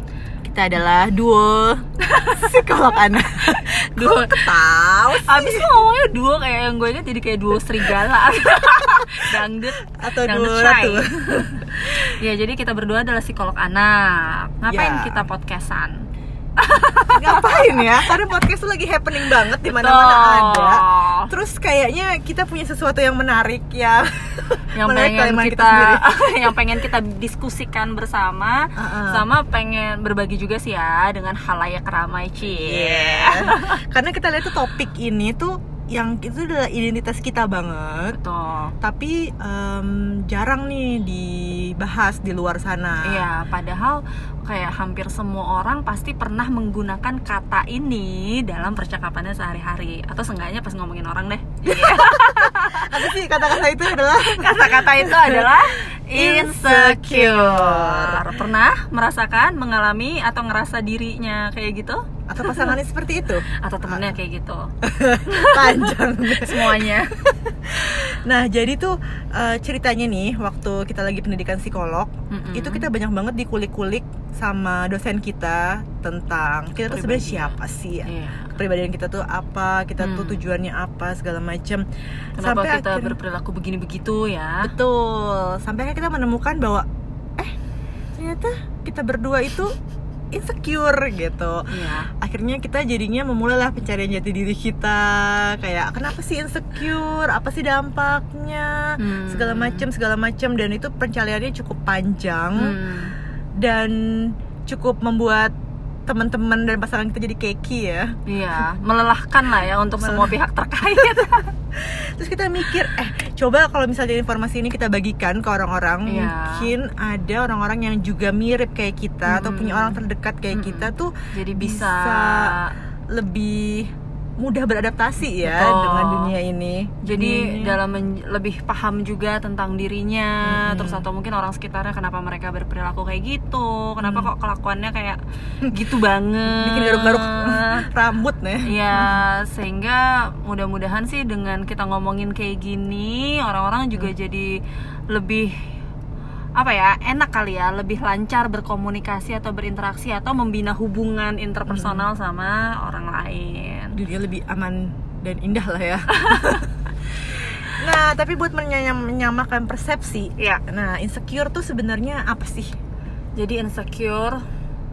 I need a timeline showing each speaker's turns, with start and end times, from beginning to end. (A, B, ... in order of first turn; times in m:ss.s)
0:00.4-0:05.8 A
0:02.0-0:02.5 B
0:03.6-0:04.6 B
0:05.2-0:16.0 B
0:09.0-0:09.2 A
0:09.9-0:11.5 A
0:14.7-0:15.3 A
0:16.6-0:18.1 B
0:17.1-0:26.6 A
0:19.6-0:21.3 B
0:24.8-0:33.8 B
0:28.8-0:29.2 A
0:32.4-0:38.2 A
0:38.1-0:38.7 B
0:38.8-0:43.2 A
0:43.0-0:53.1 B
0:51.6-0:58.3 A
0:54.2-1:02.7 B
1:02.3-1:04.1 A
1:03.6-1:04.7 B
1:04.8-1:23.2 A
1:05.3-1:07.1 B
1:12.3-1:12.9 B
1:16.9-1:17.5 B
1:18.0-1:18.6 B
1:20.0-1:20.5 B
1:22.4-1:24.7 B
1:24.6-1:26.8 A
1:28.2-1:29.8 A
1:30.3-1:42.8 A
1:31.7-1:32.1 B
1:39.0-1:39.9 B
1:42.6-1:43.1 B
1:43.6-1:45.5 A
1:46.1-1:48.1 A
1:48.3-1:51.5 B
1:50.0-1:50.3 A
1:51.7-2:02.5 A
1:56.1-1:56.7 B
1:59.2-2:00.0 B
2:00.5-2:02.7 B
2:03.1-2:07.8 A
2:05.4-2:06.3 B
2:07.0-2:17.8 B
2:10.4-2:11.1 A
2:14.0-2:14.3 A
2:16.4-2:19.2 A
2:18.7-2:24.6 B
2:25.1-2:25.5 B
2:26.6-2:34.0 B
2:31.7-2:32.1 A
2:33.9-2:42.7 A
2:36.2-2:36.6 B
2:43.4-2:44.4 B